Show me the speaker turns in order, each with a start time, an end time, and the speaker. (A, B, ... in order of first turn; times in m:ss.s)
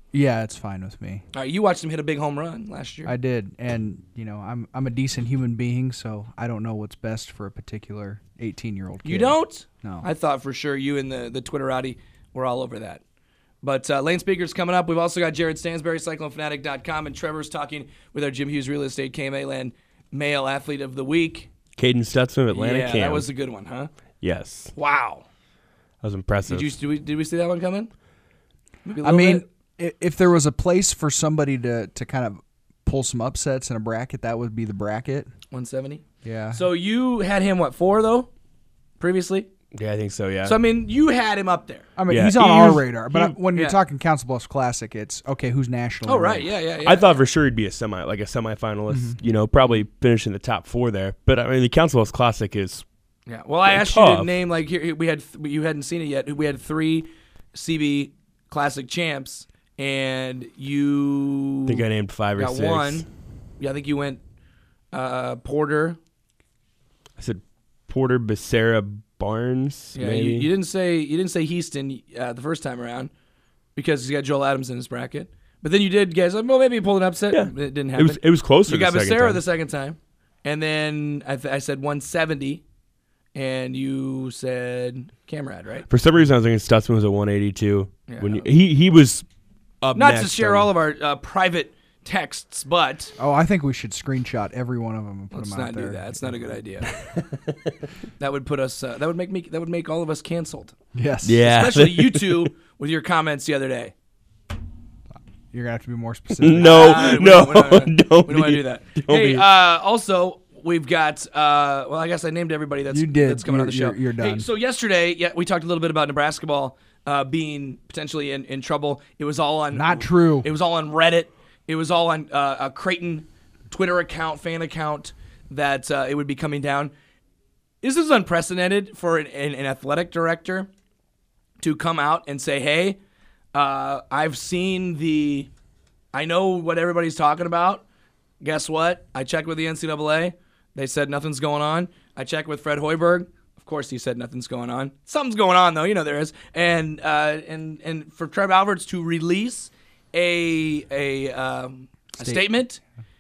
0:00.1-0:01.2 A
0:01.3-0:03.1 B
0:03.0-0:10.1 A
0:09.0-0:13.0 B
0:13.6-0:21.5 B
0:21.8-0:23.3 C
0:22.5-0:23.9 B
0:24.2-0:24.7 C
0:24.7-0:25.2 B
0:26.0-0:26.7 C
0:26.5-0:27.9 B
0:28.8-0:29.4 B
0:29.0-0:35.3 A
0:35.5-0:38.3 B
0:36.2-0:36.7 A
0:39.0-0:39.5 B
0:39.7-0:40.6 C
0:40.4-0:41.9 B
0:42.0-0:46.5 A
0:42.1-0:43.4 C
0:43.5-0:43.8 B
0:46.0-0:47.2 B
0:46.8-0:52.8 C
0:48.9-0:49.2 A
0:53.3-1:01.8 B
0:53.7-0:54.4 C
1:01.7-1:03.1 C
1:02.4-1:03.1 B
1:03.6-1:04.2 B
1:04.9-1:06.0 B
1:07.2-1:10.5 C
1:09.9-1:13.1 B
1:13.8-1:22.6 B
1:17.3-1:19.4 C
1:23.3-1:25.9 B
1:25.9-1:29.2 C
1:28.1-1:28.5 B
1:29.8-1:30.7 C
1:29.9-1:33.1 B
1:33.2-1:36.4 A
1:35.3-1:36.9 B
1:38.2-1:40.7 B
1:40.9-1:41.4 A
1:41.2-1:42.5 C
1:41.4-1:43.9 B
1:45.1-1:47.1 A
1:46.4-1:49.4 C
1:46.6-2:06.9 B
1:52.9-1:54.5 A
1:59.7-2:00.5 A
2:07.8-2:10.7 B
2:11.6-2:13.0 B
2:13.5-2:15.5 B
2:16.1-2:17.8 B
2:18.4-2:32.8 B
2:32.2-2:32.6 A